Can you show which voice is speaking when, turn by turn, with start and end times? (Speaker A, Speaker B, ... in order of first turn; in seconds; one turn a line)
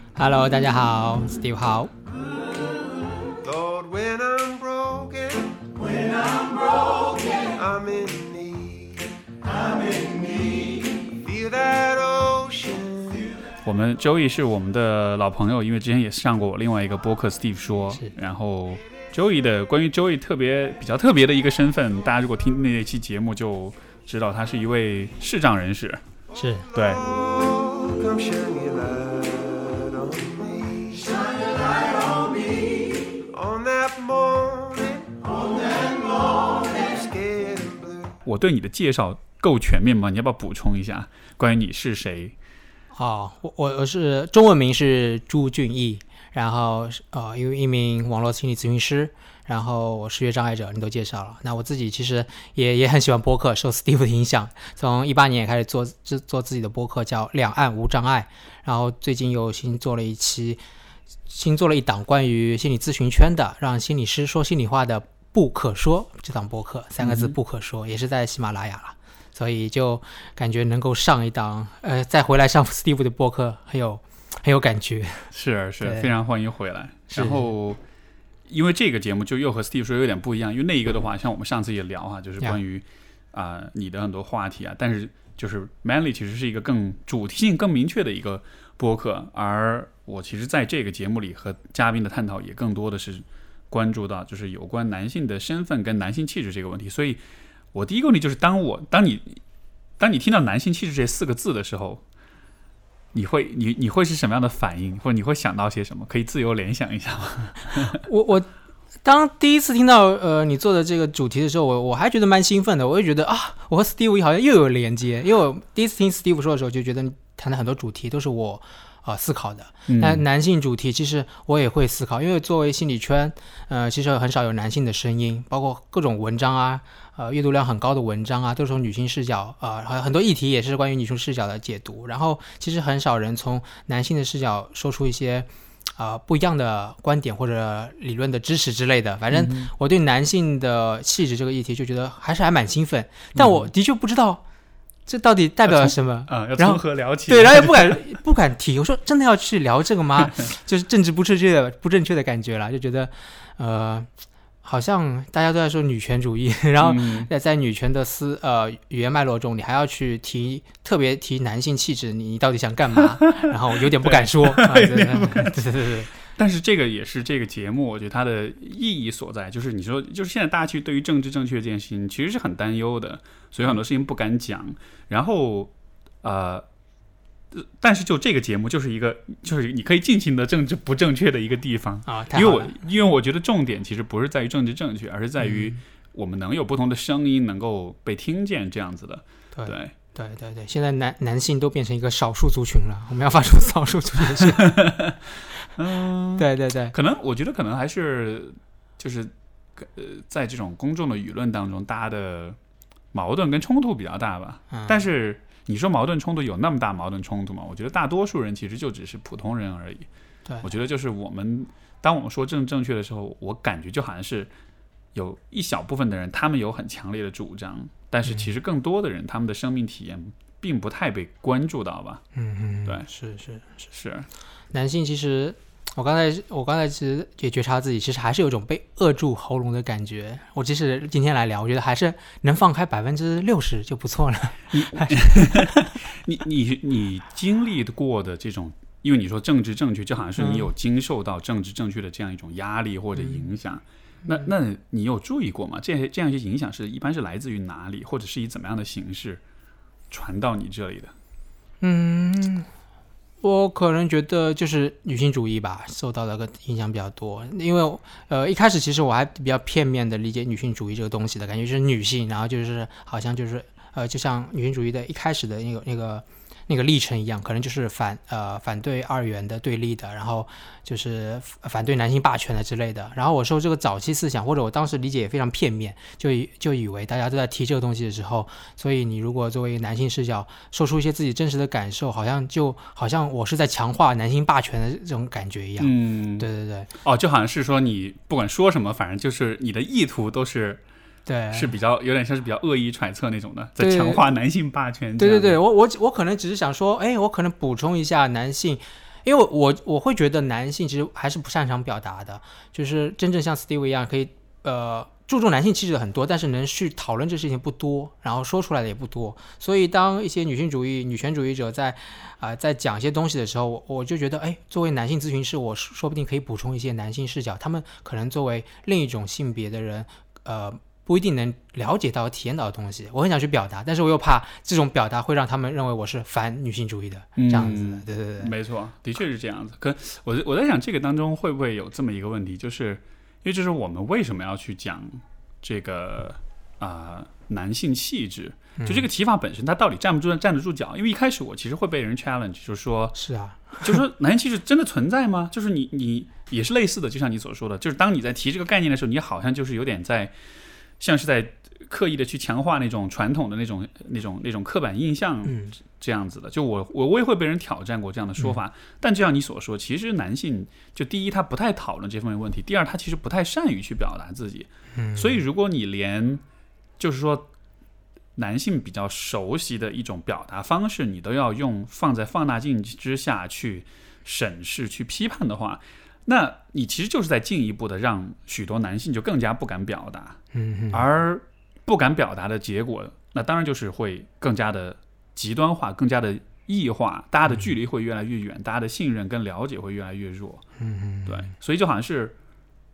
Speaker A: 0.1-1.9
Speaker B: 3.4-9.1
Speaker B: 9.7-13.3
Speaker C: 13.6-26.0
Speaker A: 26.4-26.7
Speaker B: 26.7-32.4
Speaker B: 33.1-38.2
Speaker C: 38.2-42.4
Speaker A: 42.9-60.6
Speaker A: 61.3-75.3
Speaker C: 67.0-67.3
Speaker C: 75.3-77.8
Speaker A: 75.8-76.1
Speaker A: 77.1-77.4
Speaker C: 78.5-97.2
Speaker C: 97.7-99.4
Speaker C: 100.0-102.0
Speaker C: 103.1-108.0
Speaker A: 107.9-108.5
Speaker A: 109.0-144.4
Speaker C: 119.9-120.2
Speaker C: 139.3-139.7
Speaker C: 143.3-143.7
Speaker A: 145.1-154.1
Speaker C: 145.7-148.0
Speaker A: 154.6-166.1
Speaker C: 156.8-157.3
Speaker C: 163.2-175.7
Speaker C: 176.2-176.6
Speaker C: 177.5-189.9
Speaker A: 182.1-182.8
Speaker A: 185.4-185.8
Speaker A: 189.5-194.7
Speaker C: 194.6-202.6
Speaker A: 196.4-196.9
Speaker C: 203.1-210.1
Speaker A: 204.7-205.0
Speaker C: 210.6-214.5
Speaker C: 215.1-222.2
Speaker A: 222.3-223.9
Speaker C: 223.9-224.3
Speaker A: 224.7-235.8
Speaker C: 234.7-249.4
Speaker A: 240.4-240.7
Speaker C: 250.1-251.1
Speaker A: 251.8-252.7
Speaker A: 253.4-286.9
Speaker C: 285.8-286.5
Speaker C: 287.0-290.8
Speaker A: 291.2-291.7
Speaker C: 291.5-295.6
Speaker A: 293.8-294.2
Speaker A: 295.2-328.5
Speaker C: 327.4-343.2
Speaker A: 338.8-339.1
Speaker A: 343.1-344.0
Speaker C: 343.8-350.3
Speaker C: 351.0-366.4
Speaker A: 364.9-365.4
Speaker C: 367.0-367.5
Speaker C: 368.4-380.4
Speaker A: 380.5-381.0
Speaker C: 380.9-390.6
Speaker A: 390.8-391.5
Speaker C: 391.2-392.4